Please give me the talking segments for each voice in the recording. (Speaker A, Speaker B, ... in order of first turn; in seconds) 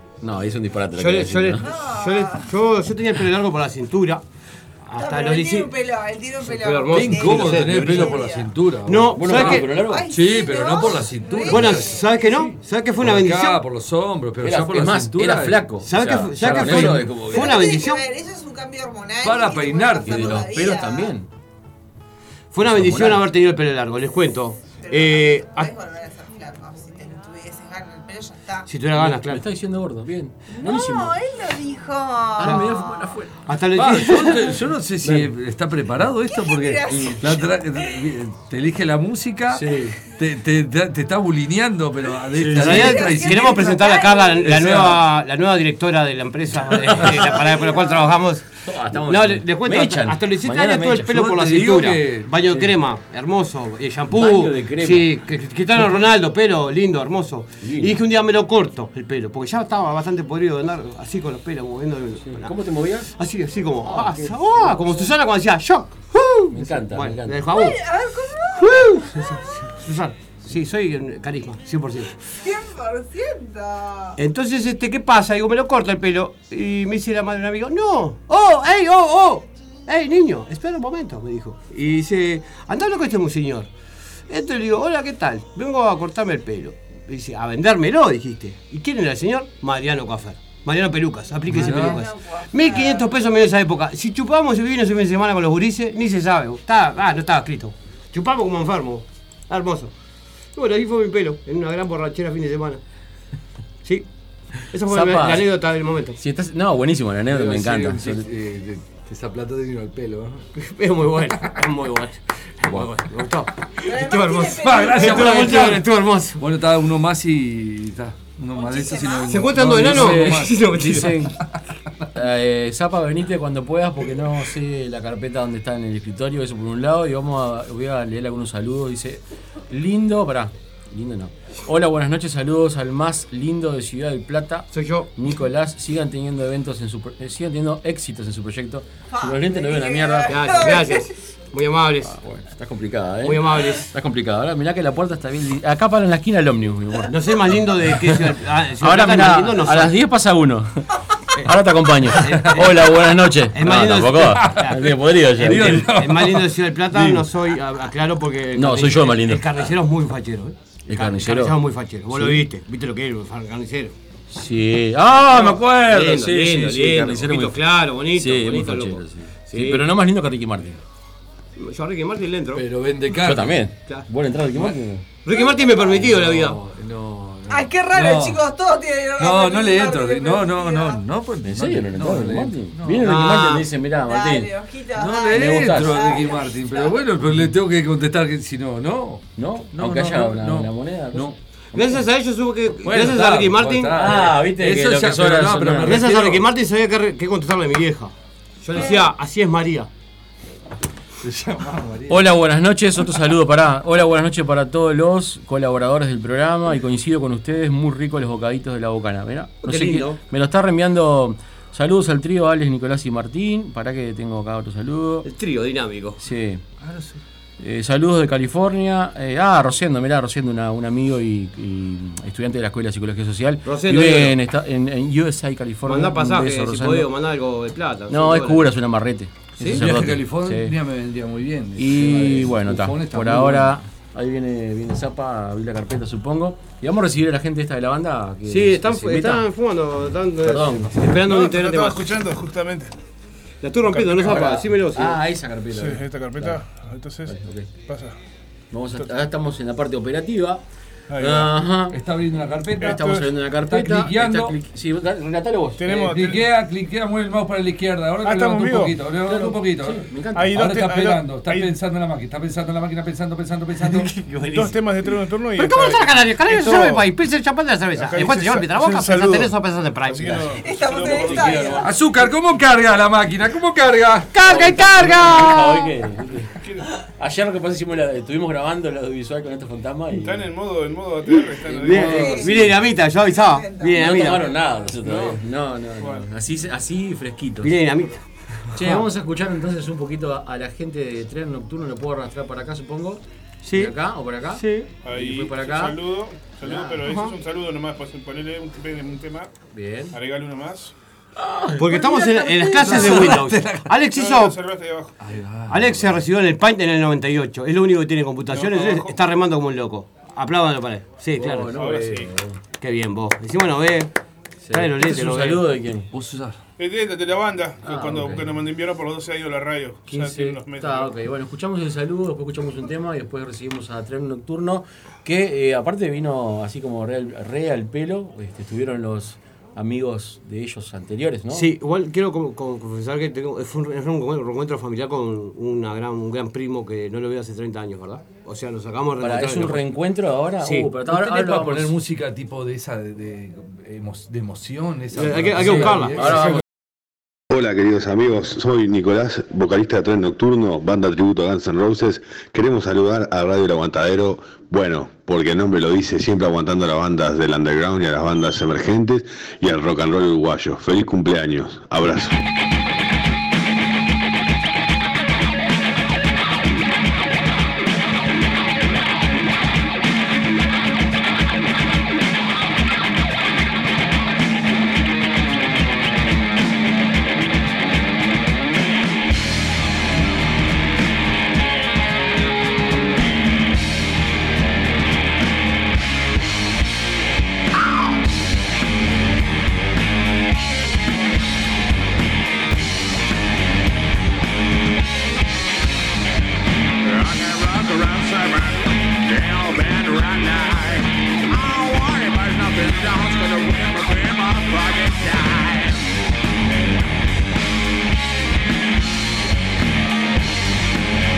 Speaker A: 0.2-1.6, 9.1-10.1, 14.4-17.6, 20.1-21.3, 22.6-23.2, 28.9-31.1, 32.4-33.4, 35.0-35.3, 36.9-37.2, 39.5-40.0, 42.4-42.9, 48.6-51.2, 52.5-52.7, 54.1-55.1, 57.6-58.0, 62.2-63.1, 63.8-65.1, 66.5-67.5, 104.9-105.5, 106.2-108.3, 119.8-121.4, 122.1-140.3, 142.0-147.2, 148.8-150.9, 151.4-155.9, 156.9-157.2, 158.6-159.4, 160.9-161.6, 162.1-162.4, 164.3-170.8, 173.2-175.0, 181.4-184.5, 185.3-186.1, 189.4-192.0, 192.8-196.1, 202.1-215.3, 216.2-216.6, 217.6-227.1, 228.1-230.8, 231.8-239.5, 240.4-241.1, 244.2-246.6, 247.3-247.7, 248.7-250.6, 251.2-252.0, 252.8-256.3, 259.2-260.6, 271.2-271.9, 274.4-280.5, 281.8-282.6, 283.9-287.8, 288.7-293.2, 293.7-296.0, 296.6-297.0, 299.7-300.2, 301.4-303.3, 311.4-312.6, 314.6-316.1, 317.8-318.6, 320.1-331.7, 339.2-341.9, 345.6-346.6
Speaker B: 1.0-4.2, 4.8-5.7, 6.4-8.2, 8.8-9.8, 11.5-13.6, 15.8-18.0, 22.5-25.7, 28.7-29.4, 32.4-32.7, 33.5-34.6, 42.6-62.5, 63.2-67.8, 68.6-72.1, 74.2-83.7, 84.3-99.9, 100.5-102.8, 104.6-106.2, 110.6-116.4, 119.3-121.2, 134.7-135.1, 140.3-142.1, 143.2-143.9, 147.1-149.9, 152.1-163.9, 165.2-169.9, 171.6-172.7, 175.2-176.6, 183.0-183.7, 191.7-194.3, 195.8-199.9, 209.6-210.2, 215.2-216.2, 223.7-224.4, 225.8-228.7, 229.6-229.9, 238.5-242.1, 243.6-245.2, 263.9-270.7, 274.3-275.9, 281.8-284.6, 287.6-288.2, 288.7-289.1, 293.6-293.9, 294.6-294.9, 297.0-297.3, 301.8-304.6, 305.7-311.8, 312.8-314.1, 314.7-315.7, 331.5-339.9, 340.6-340.9, 345.1-346.6
Speaker C: 1.6-2.5, 5.0-8.5, 9.4-12.1, 17.3-21.1, 24.8-28.7, 30.5-33.1, 36.3-38.1, 42.6-44.6, 47.2-48.1, 67.5-69.5, 72.4-74.2, 91.5-93.1, 113.8-115.8, 118.5-119.7, 139.1-141.1, 175.3-175.7, 177.5-181.0, 184.1-187.0, 270.6-271.9, 282.0-282.7, 283.2-284.2
Speaker D: 6.9-12.1, 13.0-15.7, 16.4-17.1, 19.2-20.4, 33.7-43.8, 44.4-45.0, 51.1-52.3, 91.5-92.0, 107.3-110.5, 114.6-121.6, 154.4-154.7, 155.4-156.5, 172.5-173.6, 175.8-178.4, 179.2-183.1, 184.9-191.4, 192.9-196.5, 201.2-202.3, 216.8-217.2, 229.7-233.8, 251.9-254.6, 255.9-264.1, 271.8-274.3, 285.1-285.4, 302.8-303.9, 305.2-306.2, 316.1-316.6, 341.0-346.6
Speaker E: 241.2-242.9, 243.9-244.5, 245.7-248.2, 251.1-251.5, 252.8-253.3, 255.8-256.4, 258.2-259.0, 260.4-261.7, 264.5-267.1, 267.9-269.5, 270.1-271.8, 276.6-276.9, 280.1-282.5, 286.0-286.3, 295.0-299.5, 300.1-300.9, 304.0-305.2, 308.5-309.2, 311.7-312.3, 316.8-321.1
Speaker F: 347.5-362.4
Speaker G: 397.0-406.1